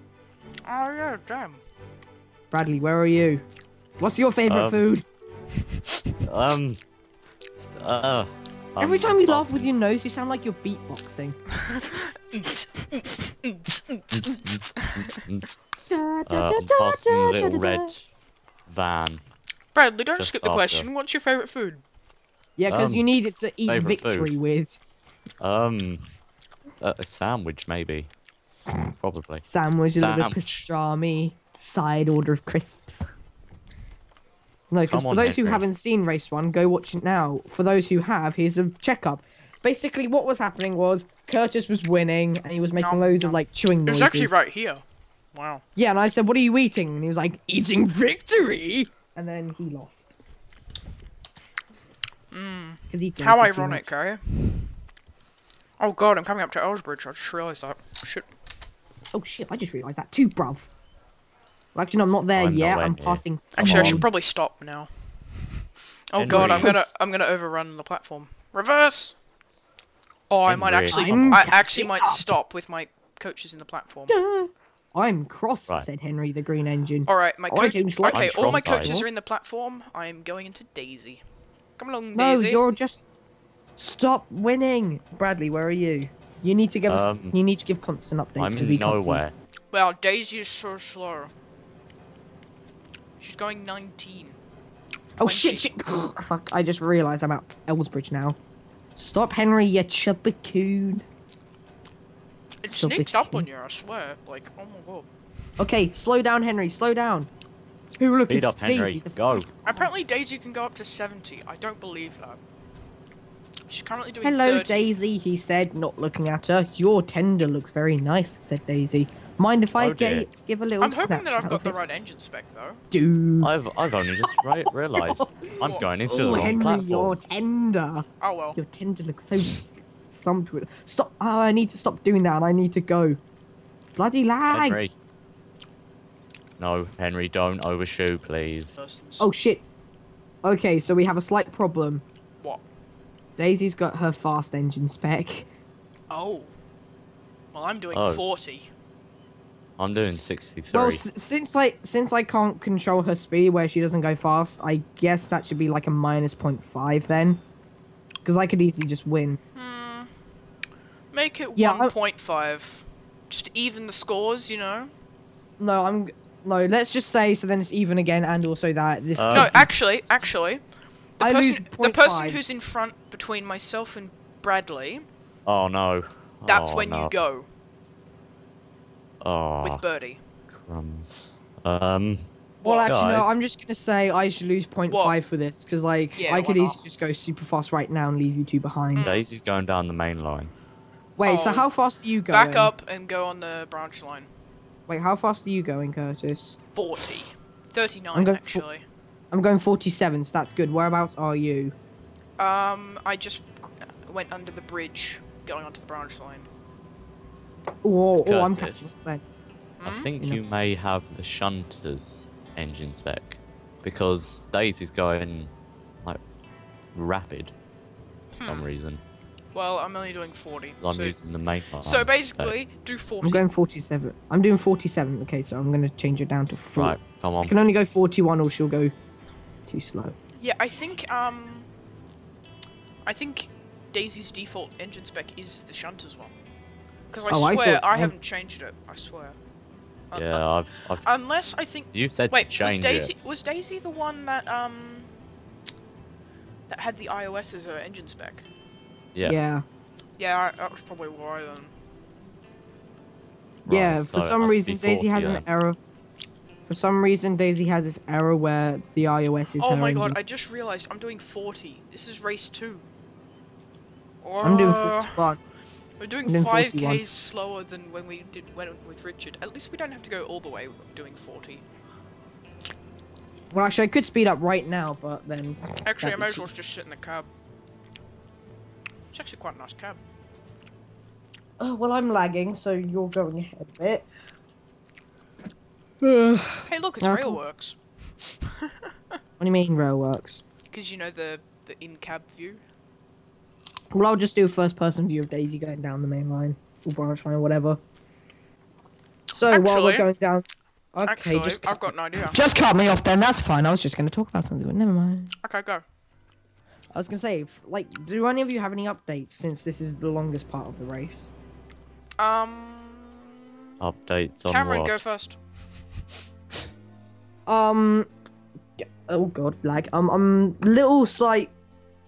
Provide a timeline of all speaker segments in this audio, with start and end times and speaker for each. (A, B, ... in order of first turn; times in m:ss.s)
0:00.7-0:01.6 A
0:02.5-0:03.4 B
0:04.0-0:05.0 B
0:04.5-0:04.8 C
0:06.2-0:06.8 C
0:07.6-0:09.7 C
0:08.8-0:11.4 B
0:11.6-0:15.2 A
0:14.1-0:15.6 C
0:15.9-0:17.9 B
0:16.3-0:18.1 C
0:18.7-0:19.2 C
0:19.8-0:21.8 A
0:20.2-0:20.9 C
0:22.6-0:24.8 B
0:22.7-0:23.0 C
0:23.7-0:24.3 C
0:25.4-0:26.1 C
0:26.8-0:28.1 C
0:29.0-0:30.6 C
0:29.4-0:33.0 B
0:34.7-0:44.3 B
0:34.9-0:35.6 C
0:42.8-0:44.8 A
0:45.3-0:45.6 A
0:45.8-0:50.2 B
0:52.3-0:54.7 A
0:52.9-0:53.9 B
0:55.8-0:58.3 A
0:59.1-1:00.7 B
1:01.8-1:04.1 B
1:02.4-1:04.1 C
1:03.6-1:09.2 A
1:06.2-1:06.7 C
1:06.3-1:06.9 B
1:10.3-1:14.2 A
1:10.5-1:11.5 C
1:10.9-1:12.3 B
1:14.1-1:19.1 B
1:17.1-1:21.2 A
1:18.1-1:19.0 C
1:21.8-1:22.6 A
1:22.2-1:23.0 B
1:23.8-1:29.2 B
1:26.9-1:27.4 C
1:28.4-1:29.3 C
1:29.7-1:31.3 A
1:33.2-1:34.4 A
1:35.2-1:38.4 B
1:35.2-1:35.6 A
1:39.0-1:41.0 B
1:42.6-1:45.1 A
1:42.7-1:43.5 B
1:45.6-1:47.3 B
1:48.0-1:49.9 B
1:48.3-1:49.5 C
1:49.6-1:52.4 A
1:53.7-1:55.0 A
1:54.2-2:01.8 B
1:59.8-2:00.3 C
2:00.8-2:02.8 A
2:02.9-2:05.3 B
2:03.4-2:07.2 C
2:05.6-2:05.9 A
2:06.0-2:13.2 B
2:08.2-2:08.6 A
2:14.0-2:14.8 B
2:14.5-2:15.0 C
2:16.6-2:18.8 C
2:18.8-2:19.3 A
2:19.2-2:19.6 B
2:20.4-2:22.0 B
2:23.4-2:25.5 B
2:26.1-2:26.5 A
2:27.5-2:28.7 A
2:27.9-2:28.2 C
2:29.8-2:31.0 C
2:29.9-2:37.4 B
2:38.2-2:39.4 B
2:39.6-2:40.1 A
2:41.1-2:44.9 A
2:41.6-2:41.9 B
2:45.6-2:50.1 B
2:49.2-2:49.6 C
2:49.3-2:50.6 A
2:51.2-2:55.0 A
2:51.2-2:52.4 B
2:55.5-2:57.2 C
2:56.5-2:57.5 A
2:59.2-2:59.8 C
2:59.6-3:00.2 A
3:00.5-3:02.3 C
3:02.6-3:02.9 A
3:02.6-3:09.1 B
3:02.9-3:03.4 C
3:04.9-3:05.2 A
3:06.2-3:06.8 A
3:09.0-3:09.3 A
3:09.0-3:10.5 C
3:11.2-3:12.7 B
3:11.2-3:11.7 A
3:12.3-3:14.3 A
3:14.9-3:16.6 B
3:16.8-3:18.8 A
3:18.1-3:18.6 B
3:19.3-3:21.8 B
3:22.4-3:26.5 A
3:27.8-3:29.2 B
3:28.2-3:28.9 C
3:29.8-3:30.1 A
3:29.8-3:35.5 C
3:37.0-3:37.5 C
3:38.3-3:39.0 C
3:38.4-3:38.7 A
3:39.5-3:41.2 A
3:40.8-3:42.5 C
3:41.8-3:43.5 A
3:43.2-3:48.9 B
3:46.8-3:47.6 C
3:49.7-3:50.2 B
3:50.4-3:51.7 A
3:53.0-3:56.3 A
3:57.1-3:59.4 A
3:57.3-3:58.1 B
4:00.1-4:00.5 A
4:00.2-4:01.1 C
4:01.0-4:05.1 A
4:01.9-4:03.1 C
4:06.7-4:08.4 A
4:09.2-4:09.5 C
4:09.2-4:09.6 B
4:10.2-4:11.7 A
4:13.7-4:15.4 C
4:13.7-4:15.8 B
4:16.7-4:20.2 B
4:19.6-4:22.9 A
4:24.2-4:25.2 A
4:24.4-4:25.4 B
4:26.0-4:31.6 A
4:26.2-4:27.0 B
4:33.5-4:36.5 B
4:35.8-4:37.3 A
4:39.1-4:40.0 A
4:41.6-4:44.1 B
4:46.0-4:47.4 B
4:46.6-4:48.9 A
4:49.4-4:50.4 B
4:50.7-4:52.6 A
4:53.9-4:57.8 B
4:59.3-5:05.4 B
4:59.5-5:00.1 A
5:01.0-5:02.4 A
5:05.4-5:05.8 A
5:07.0-5:11.3 B
5:12.2-5:13.5 A
5:13.8-5:15.0 C
5:14.5-5:15.4 A
5:17.5-5:18.1 B
5:18.8-5:21.5 B